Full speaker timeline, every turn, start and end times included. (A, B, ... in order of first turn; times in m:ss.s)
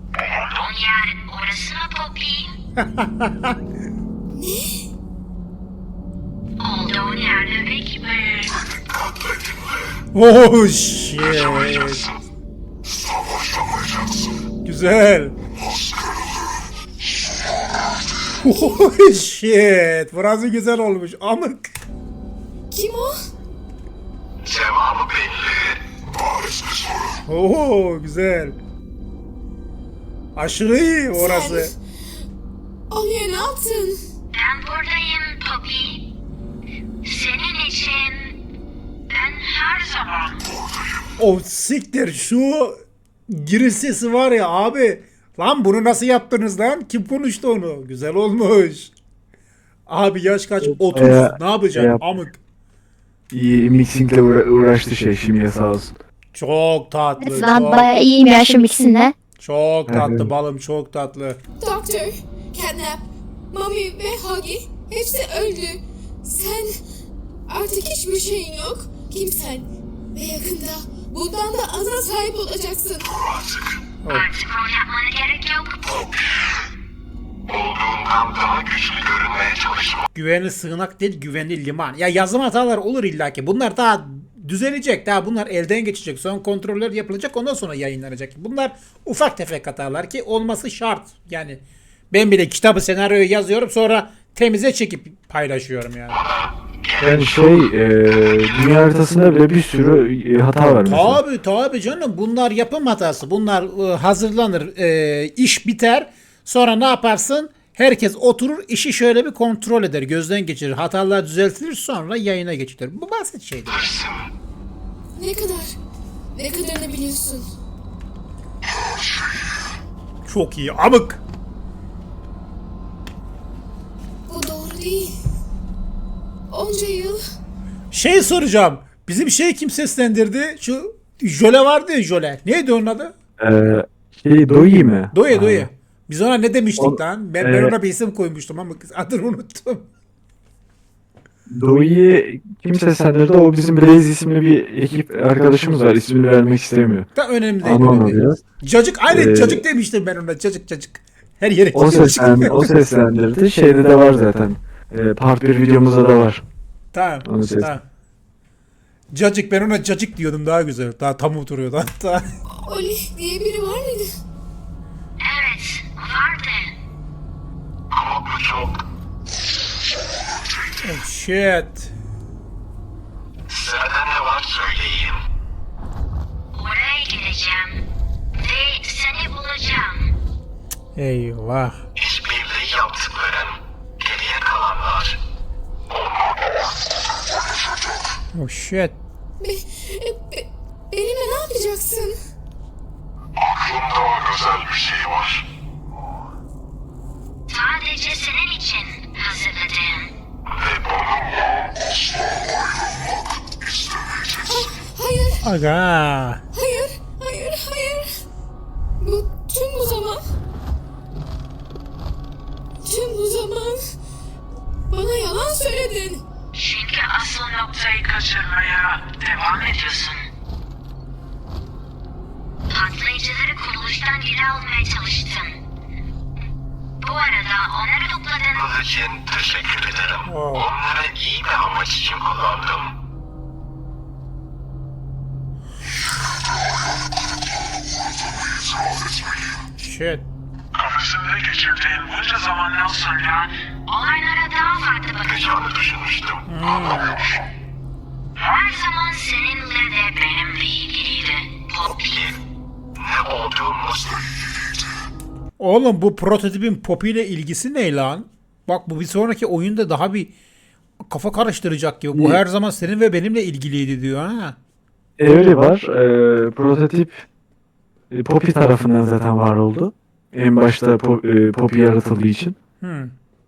0:00.2-0:02.5 A
0:02.8-0:03.6 B
0:04.3-0:04.8 C
0:06.6-0:08.6 A
0:08.9-0:09.5 D
0:10.1-0:12.0 B
0:13.5-0:13.9 D
0:14.6-0:15.4 B
0:18.4-0:21.7 B
0:22.7-0:23.1 C
0:24.4-0:25.8 D
0:27.2-0:28.6 B
0:30.4-0:31.7 B
0:31.1-0:31.7 C
0:32.9-0:34.0 C
0:34.3-0:36.0 A
0:37.0-0:38.4 A
0:39.1-0:40.4 A
0:41.2-0:42.8 B
0:43.3-0:48.9 B
0:49.9-0:52.4 B
0:50.6-0:52.0 E
0:53.3-0:55.9 E
0:56.3-0:57.9 B
0:57.2-0:59.1 F
0:59.4-1:01.4 B
0:59.9-1:00.3 E
1:01.6-1:06.8 C
1:07.5-1:13.2 C
1:14.0-1:14.3 B
1:14.1-1:16.1 A
1:17.5-1:20.0 D
1:20.1-1:36.2 B
1:37.0-1:41.2 E
1:40.8-1:53.9 B
1:53.7-1:54.3 D
1:55.1-1:55.7 C
1:56.3-1:57.5 C
2:00.2-2:01.2 B
2:04.3-2:05.2 C
2:06.5-2:07.2 C
2:07.9-2:13.1 B
2:13.4-2:15.7 E
2:15.1-2:19.8 B
2:16.8-2:17.7 E
2:21.5-2:27.1 E
2:27.1-2:32.7 B
2:27.6-2:28.4 E
2:29.1-2:29.6 E
2:31.7-2:36.4 E
2:36.9-2:37.8 B
2:37.2-2:37.7 E
2:39.1-2:42.2 B
2:42.6-2:44.1 C
2:45.2-2:46.7 A
2:47.9-2:48.8 D
2:50.8-2:51.9 B
2:53.5-2:55.2 D
2:56.5-2:57.8 A
2:58.3-3:00.1 A
3:01.0-3:01.8 B
3:02.0-3:05.2 D
3:08.3-3:09.0 B
3:09.4-3:12.2 C
3:13.6-3:15.4 D
3:17.5-3:20.1 A
3:20.6-3:21.2 D
3:24.4-3:25.4 C
3:25.4-3:26.4 B
3:26.5-3:28.1 C
3:29.0-3:30.2 C
3:32.8-3:33.8 C
3:34.9-3:36.2 C
3:36.5-3:40.3 A
3:42.7-3:45.6 A
3:47.0-3:48.7 A
3:48.6-3:52.9 D
3:50.2-3:50.7 B
3:59.8-4:00.2 B
4:00.8-4:05.7 A
4:05.6-4:06.4 D
4:06.5-4:07.2 B
4:08.4-4:12.0 A
4:12.0-4:12.3 D
4:13.0-4:14.2 D
4:15.6-4:20.3 B
4:21.1-4:24.6 B
4:22.1-4:22.4 E
4:25.2-4:27.2 E
4:28.1-4:32.6 E
4:32.8-4:33.1 B